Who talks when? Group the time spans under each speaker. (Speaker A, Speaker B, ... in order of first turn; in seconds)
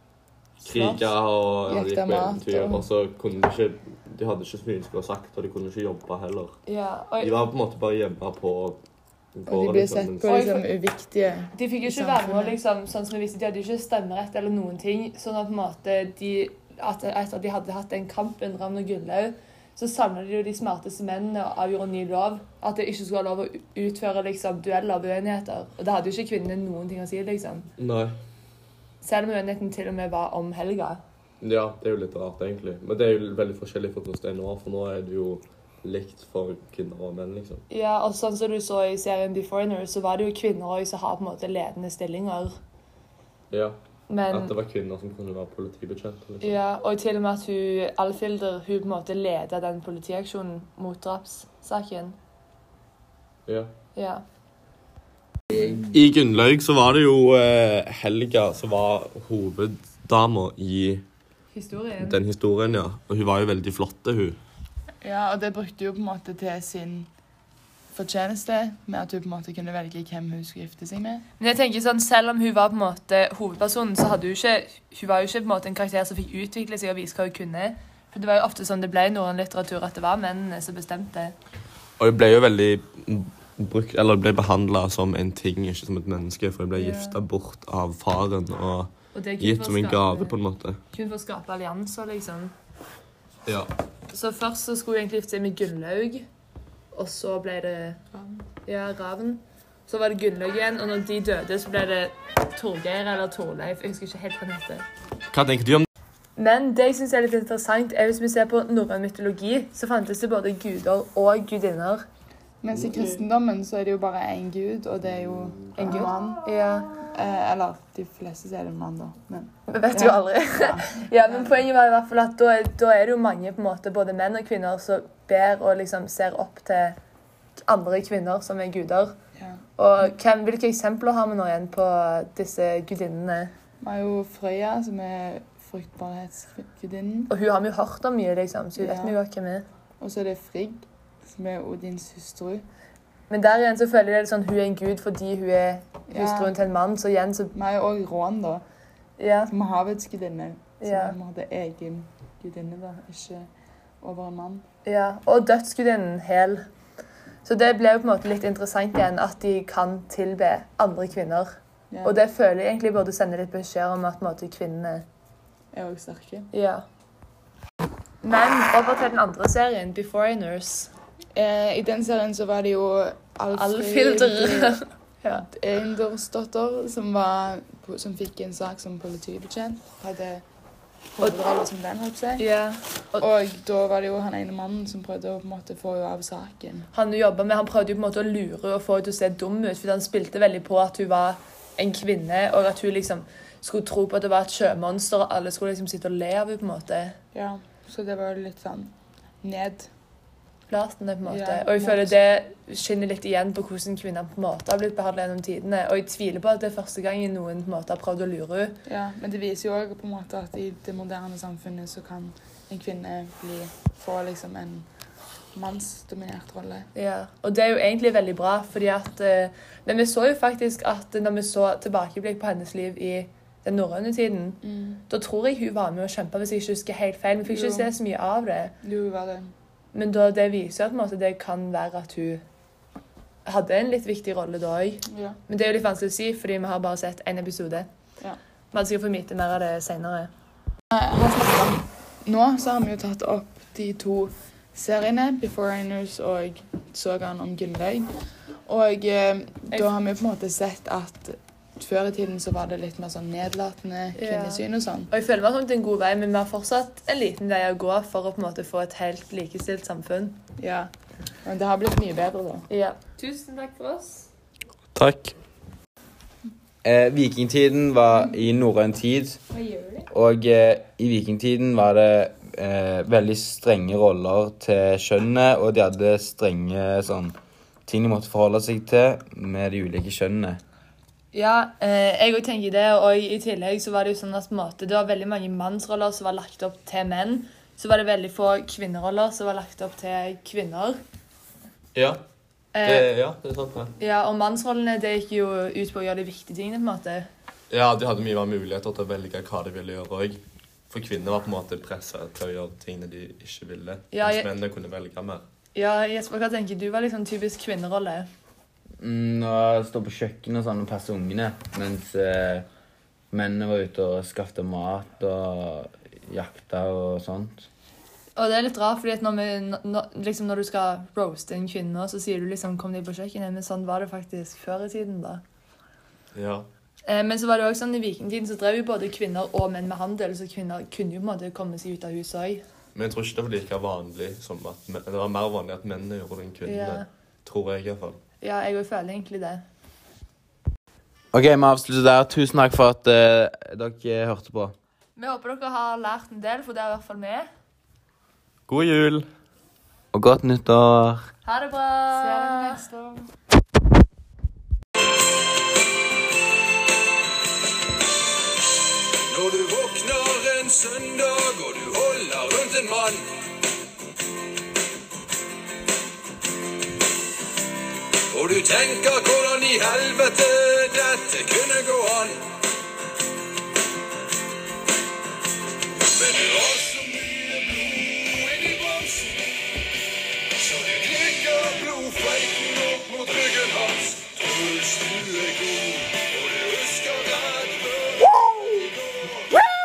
Speaker A: 0.6-6.5, 7.2-8.8, 9.3-10.4, 27.8-28.1, 31.4-37.6, 43.5-43.8, 44.3-46.6, 55.6-61.0, 62.0-64.4, 82.0-90.8, 105.3-105.9, 264.9-265.3, 291.9-292.2, 292.8-293.9, 297.7-300.4, 300.9-305.4, 326.3-326.7, 332.9-338.2, 348.7-349.3
Speaker B: 0.7-1.1, 1.6-2.8, 9.5-12.6, 65.0-67.1, 67.9-71.2, 112.6-116.4, 117.1-121.6, 133.8-137.3, 138.8-139.2, 140.0-142.6, 146.1-146.5, 147.5-148.6, 149.5-153.5, 154.0-154.6, 161.9-162.2, 165.7-166.5, 171.3-174.8, 175.5-180.4, 181.1-182.4, 183.2-186.9, 197.3-199.9, 201.2-202.2, 208.8-214.8, 215.5-216.9, 224.6-225.0, 227.5-227.9, 228.8-229.5, 235.1-235.4, 240.9-248.1, 248.7-255.1, 260.6-260.9, 261.4-262.7, 352.2-353.2
Speaker C: 6.7-7.4, 10.2-10.7, 11.5-27.7, 29.0-31.0, 37.7-42.5, 44.1-44.5, 46.4-52.1, 54.0-54.2, 61.5-62.2, 71.4-81.3, 86.8-87.2, 89.1-90.3, 90.9-92.5, 94.1-96.2, 96.9-104.8, 106.4-112.0, 115.8-117.1, 119.7-127.0, 127.6-129.1, 129.8-133.5, 137.3-139.7, 143.3-147.5, 149.2-149.5, 150.8-151.2, 154.8-156.6, 157.4-161.5, 162.0-165.0, 166.5-166.8, 168.2-170.9, 173.5-175.4, 182.4-183.3, 186.9-197.2, 200.7-208.8, 216.9-228.7, 229.9-232.4, 233.4-237.9, 238.7-240.3, 254.2-260.4, 262.7-264.3, 269.5-270.0, 281.3-291.0, 292.8-293.1, 294.0-297.3, 304.1-304.5, 305.7-308.3, 318.4-325.4, 327.1-332.6, 336.6-337.1, 338.4-339.6, 345.1-347.5, 351.4-352.8
Speaker D: 266.8-269.4, 270.1-277.3, 277.9-280.6, 309.0-312.6, 313.3-317.7, 341.3-344.7, 350.1-351.3
Speaker E: 359.3-363.3, 368.3-372.5, 376.1-379.4, 380.7-388.3